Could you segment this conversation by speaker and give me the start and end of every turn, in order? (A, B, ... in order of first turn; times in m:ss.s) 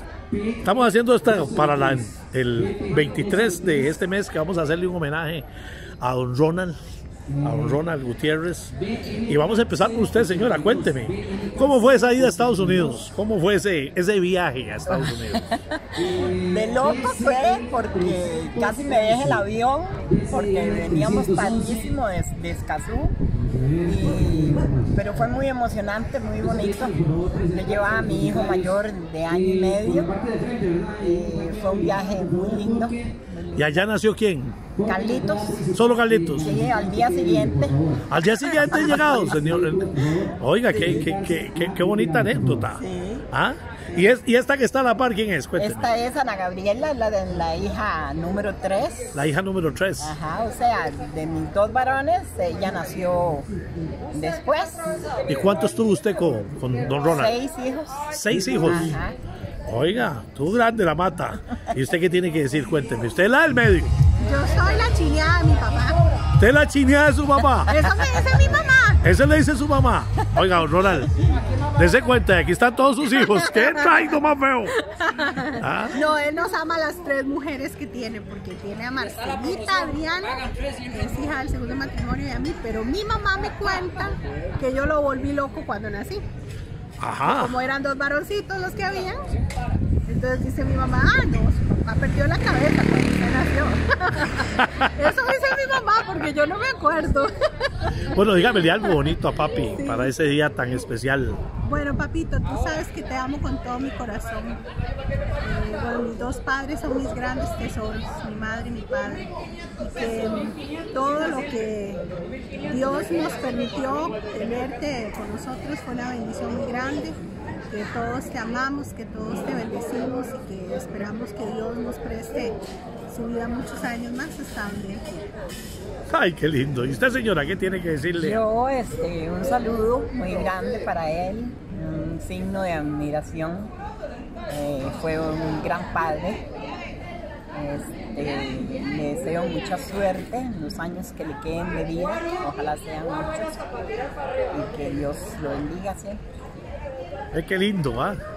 0:00.5-0:05.5 A
0:06.0-0:06.8 A
0:07.4-0:15.4 A
0:14.9-0:23.2 B
0:23.8-0:33.8 B
0:33.6-0:34.7 A
0:34.8-0:35.7 B
0:35.7-0:36.5 A
0:36.3-0:39.2 B
0:38.1-0:45.9 A
0:42.7-0:43.3 B
0:45.6-0:49.2 B
0:49.1-0:50.1 A
0:50.0-0:53.5 B
0:54.1-0:54.9 B
0:55.3-0:57.4 A
0:57.1-0:59.2 B
0:58.1-0:59.0 A
0:59.7-1:03.9 A
1:04.2-1:06.0 C
1:06.4-1:07.7 A
1:07.7-1:09.0 C
1:09.0-1:11.2 A
1:11.8-1:14.8 A
1:13.3-1:14.0 C
1:15.0-1:26.2 C
1:15.6-1:16.0 A
1:27.0-1:27.6 A
1:27.2-1:29.2 C
1:30.1-1:38.0 C
1:34.3-1:35.1 A
1:38.1-1:41.4 A
1:39.8-1:40.1 C
1:41.6-1:44.6 C
1:45.4-1:52.0 C
1:52.6-1:57.2 C
1:57.7-2:05.3 C
2:06.1-2:08.4 A
2:08.1-2:13.7 B
2:14.5-2:16.5 B
2:17.5-2:23.6 B
2:24.5-2:26.2 B
2:27.3-2:28.2 A